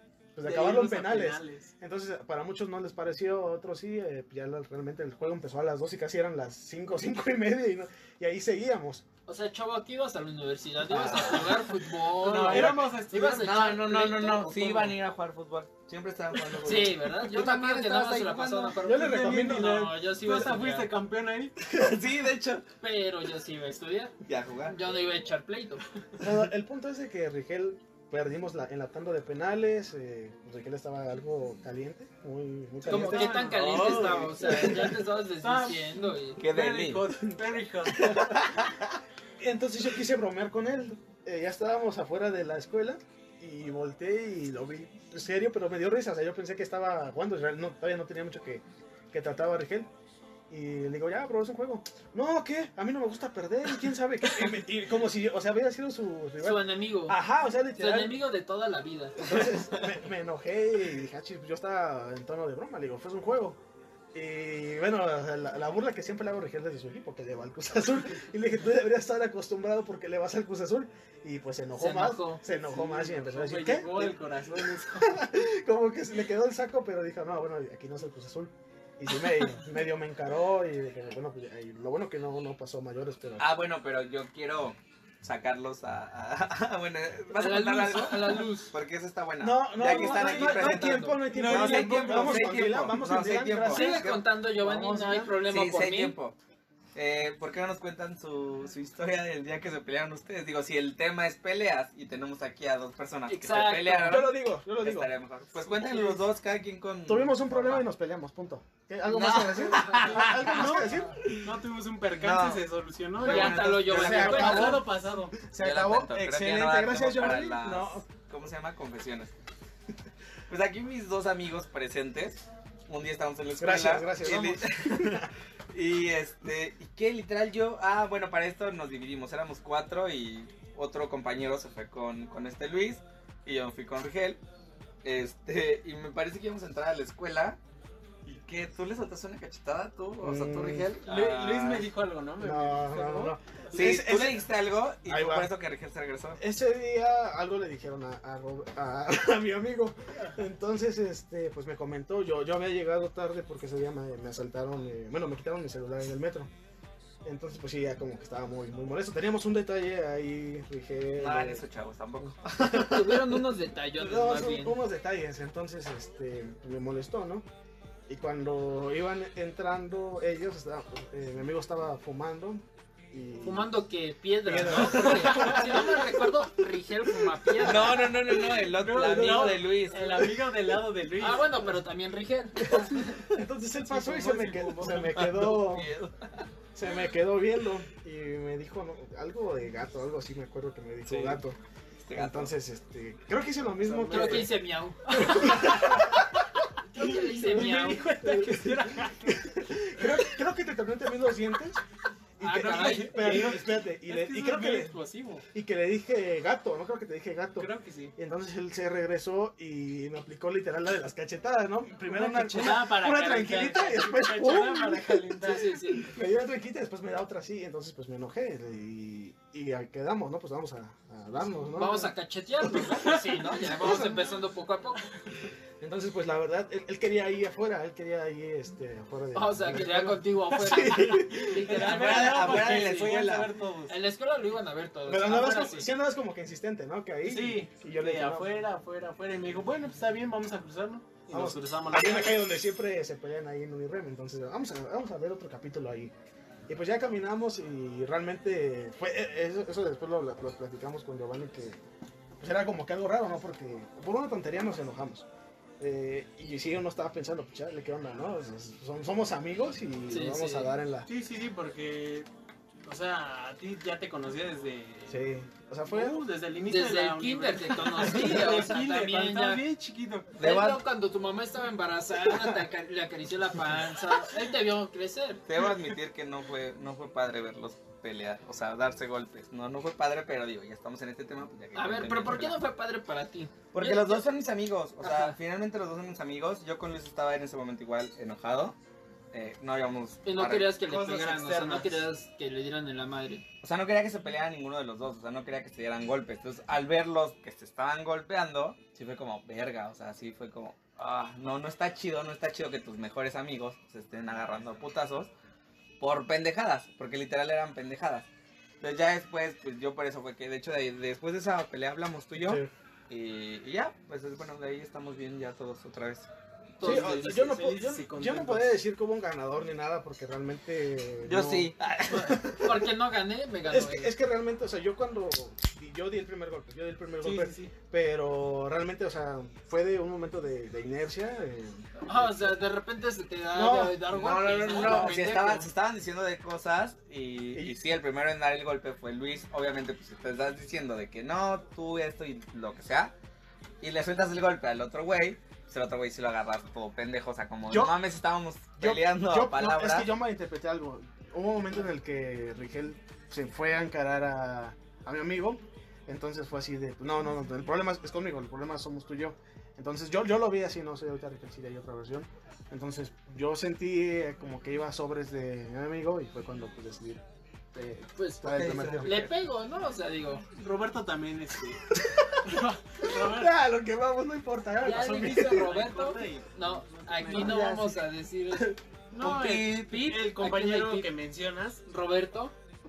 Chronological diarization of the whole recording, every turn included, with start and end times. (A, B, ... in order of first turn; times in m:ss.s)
0:00.4-0:09.0 A
0:00.4-0:01.7 B
0:09.3-0:15.0 C
0:10.9-0:11.4 A
0:10.9-0:11.4 D
0:12.2-0:13.8 B
0:12.2-0:18.8 D
0:16.6-0:20.9 C
0:18.8-0:19.9 A
0:18.9-0:21.6 B
0:21.7-0:22.6 D
0:22.8-0:24.1 C
0:24.2-0:24.8 D
0:24.7-0:25.8 C
0:26.2-0:35.0 A
0:32.8-0:34.1 B
0:32.9-0:36.4 C
0:33.4-0:34.9 D
0:35.4-0:38.3 B
0:36.4-0:37.2 D
0:38.0-0:38.6 A
0:38.1-0:38.7 D
0:39.4-0:49.9 A
0:50.5-0:58.2 A
0:56.4-0:57.2 C
0:57.8-0:59.4 C
0:59.2-1:03.6 A
1:04.1-1:23.4 A
1:11.8-1:12.4 C
1:12.7-1:15.2 B
1:23.4-1:34.2 D
1:27.3-1:28.7 C
1:29.4-1:34.0 A
1:29.9-1:30.8 B
1:30.6-1:31.2 C
1:31.3-1:32.7 B
1:33.7-1:36.2 C
1:34.6-1:35.4 A
1:35.4-1:36.4 D
1:37.0-1:47.9 D
1:43.3-1:44.3 C
1:44.1-1:45.1 A
1:45.7-1:46.2 A
1:47.1-1:51.3 A
1:49.1-1:51.5 D
1:50.0-1:51.2 C
1:50.4-1:55.4 B
1:52.1-1:52.6 D
1:53.2-1:54.8 D
1:53.2-1:54.8 C
1:53.9-1:58.0 A
1:55.6-1:59.3 D
2:00.5-2:14.4 D
2:03.6-2:05.3 A
2:15.0-2:17.6 D
2:18.2-2:21.9 D
2:20.2-2:20.9 A
2:21.0-2:24.0 B
2:22.4-2:24.5 A
2:23.7-2:26.4 D
2:25.0-2:25.5 A
2:26.4-2:36.5 A
2:37.2-2:41.6 A
2:41.2-2:43.4 D
2:42.2-2:43.0 A
2:42.6-2:44.8 C
2:44.0-2:47.5 A
2:48.1-2:53.7 A
2:53.4-2:58.1 C
2:54.4-2:56.4 A
2:54.7-2:55.4 D
2:57.2-2:58.2 A
2:57.6-3:00.3 D
2:58.6-3:01.6 B
3:01.2-3:03.0 C
3:02.6-3:05.9 A
3:03.8-3:05.3 B
3:04.9-3:06.5 D
3:06.8-3:11.6 A
3:11.0-3:11.4 D
3:12.0-3:12.5 D
3:12.2-3:14.5 A
3:13.8-3:14.5 B
3:14.1-3:15.8 C
3:15.1-3:16.3 A
3:15.2-3:15.8 B
3:16.9-3:18.1 C
3:17.0-3:19.4 B
3:18.2-3:21.8 A
3:22.4-3:25.0 A
3:22.4-3:23.5 C
3:22.5-3:25.4 B
3:25.5-3:44.3 A
3:27.6-3:28.1 B
3:32.1-3:35.7 B
3:35.4-3:36.1 C
3:41.8-3:45.0 C
3:45.8-3:51.7 A
3:49.3-3:53.2 C
3:50.7-3:54.0 B
3:51.6-3:53.5 D
3:53.9-3:55.9 C
3:55.1-3:58.5 A
3:57.2-4:02.4 B
4:01.3-4:06.1 A
4:06.7-4:11.8 A
4:12.4-4:15.3 A
4:15.8-4:21.1 A
4:20.1-4:20.7 C
4:21.1-4:22.3 B
4:22.8-4:25.3 B
4:25.1-4:26.2 A
4:25.9-4:30.3 B
4:26.6-4:29.6 C
4:30.3-4:30.8 D
4:30.4-4:35.4 C
4:35.5-4:42.6 D
4:41.8-4:44.3 C
4:43.7-4:48.8 D
4:45.0-4:45.4 C
4:49.3-4:50.7 D
4:50.2-4:53.4 C
4:50.8-4:52.1 B
4:53.6-5:05.3 D
5:06.0-5:08.3 D
5:08.8-5:16.3 D
5:12.4-5:12.7 A
5:16.8-5:17.6 C
5:16.8-5:22.5 A
5:16.8-5:18.8 B
5:21.2-5:22.7 D
5:22.5-5:24.1 C
5:23.7-5:32.6 A
5:27.2-5:27.7 B
5:32.1-5:35.7 C
5:33.5-5:34.0 A
5:34.1-5:43.1 D
5:34.7-5:35.3 A
5:43.8-5:50.1 D
5:47.7-5:48.0 A
5:48.8-6:07.2 A
6:07.7-6:09.2 A
6:08.2-6:10.4 C
6:08.5-6:09.3 D
6:10.5-6:11.8 B
6:12.2-6:15.7 A
6:12.4-6:13.5 B
6:14.8-6:18.8 C
6:14.8-6:17.6 B
6:17.3-6:18.0 D
6:19.1-6:21.8 B
6:19.2-6:20.0 D
6:19.3-6:21.1 C
6:21.9-6:22.5 C